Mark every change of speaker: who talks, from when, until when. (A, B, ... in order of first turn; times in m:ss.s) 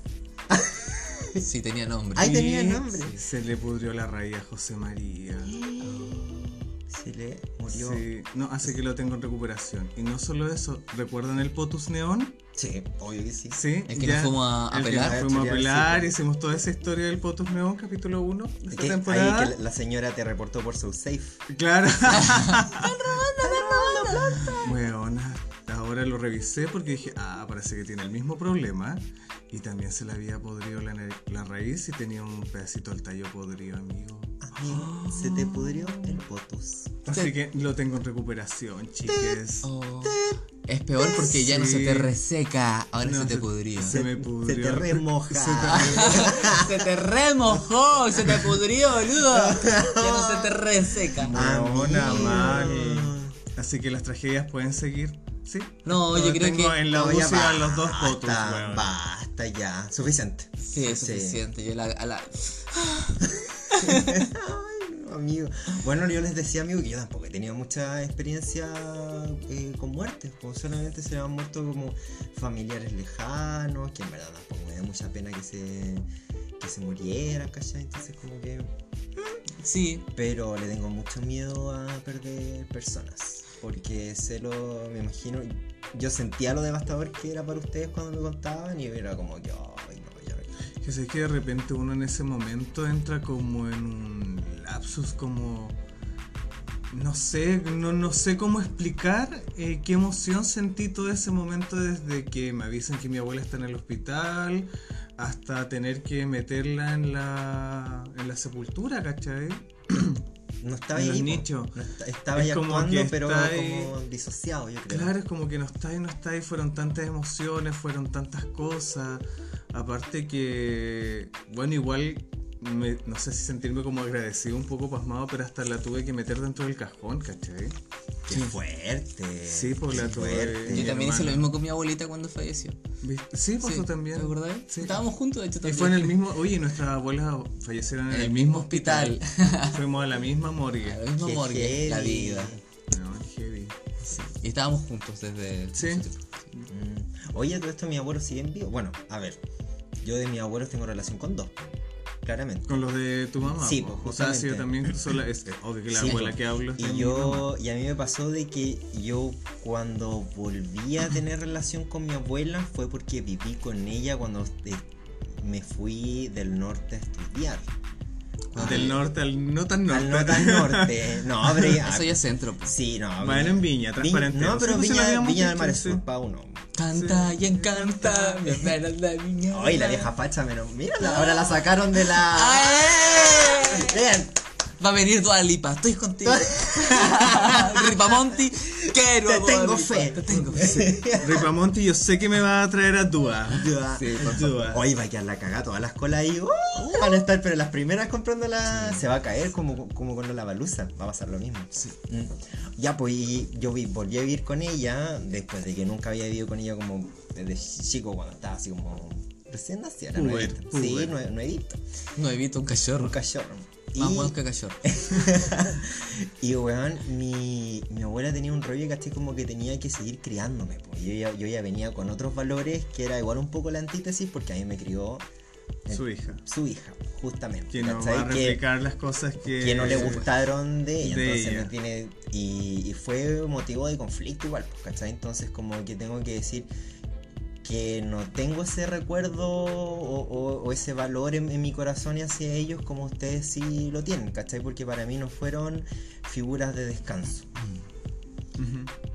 0:00.5-0:01.4 A
0:01.4-0:03.2 B
0:02.1-0:03.2 A
0:02.2-0:05.6 C
0:05.4-0:08.0 A
0:06.0-0:06.3 B
0:07.7-0:12.4 C
0:12.6-0:13.6 A
0:13.5-0:19.6 C
0:13.9-0:15.2 B
0:14.8-0:16.1 A
0:18.7-0:21.4 A
0:21.5-0:22.9 C
0:22.2-0:24.6 B
0:23.4-0:24.8 A
0:24.5-0:34.9 C
0:34.4-0:37.2 A
0:34.7-0:36.0 B
0:37.0-0:39.7 C
0:39.1-0:39.4 A
0:39.6-0:44.0 B
0:40.0-0:40.4 A
0:41.0-0:41.3 A
0:41.2-0:42.1 C
0:43.0-0:46.4 C
0:43.9-0:46.9 A
0:45.7-0:51.4 B
0:48.1-0:48.5 A
0:49.0-0:50.6 A
0:51.2-0:58.9 C
0:51.2-0:53.3 A
0:52.0-0:52.5 B
0:55.8-0:56.8 B
0:56.8-1:01.4 A
1:00.6-1:04.2 B
1:03.7-1:16.1 A
1:16.6-1:19.4 A
1:19.6-1:20.0 B
1:20.1-1:30.5 A
1:30.8-1:35.8 C
1:36.9-1:50.2 C
1:50.6-1:55.1 A
1:50.9-1:51.8 C
1:52.3-1:53.9 C
1:54.9-2:07.8 C
2:08.3-2:10.9 A
2:09.5-2:11.5 C
2:10.7-2:12.8 B
2:13.0-2:15.0 C
2:13.6-2:16.2 B
2:15.6-2:21.0 C
2:18.1-2:19.8 B
2:20.8-2:22.6 B
2:21.2-2:22.6 A
2:22.9-2:23.7 C
2:24.0-2:26.3 B
2:25.7-2:26.0 C
2:26.7-2:29.4 A
2:30.0-2:32.8 A
2:32.7-2:37.5 C
2:33.4-2:34.9 A
2:35.9-2:47.7 A
2:48.5-2:49.0 A
2:48.6-2:51.8 C
2:49.9-2:56.6 A
2:51.8-2:52.7 B
2:53.2-2:56.0 C
2:56.8-3:00.1 B
2:56.9-2:58.3 C
2:59.5-3:04.3 A
3:01.0-3:04.0 B
3:04.8-3:11.0 B
3:06.2-3:08.3 A
3:08.9-3:11.5 A
3:11.2-3:14.8 C
3:13.5-3:31.8 A
3:13.9-3:14.7 B
3:16.8-3:17.3 B
3:18.7-3:19.0 B
3:30.1-3:31.2 C
3:32.2-3:33.2 B
3:33.0-3:45.2 A
3:33.9-3:34.9 B
3:45.9-3:48.6 A
3:45.9-3:46.4 C
3:47.7-3:50.3 C
3:49.4-3:56.7 A
3:51.0-3:51.7 C
3:57.6-4:07.5 A
4:08.6-4:08.9 C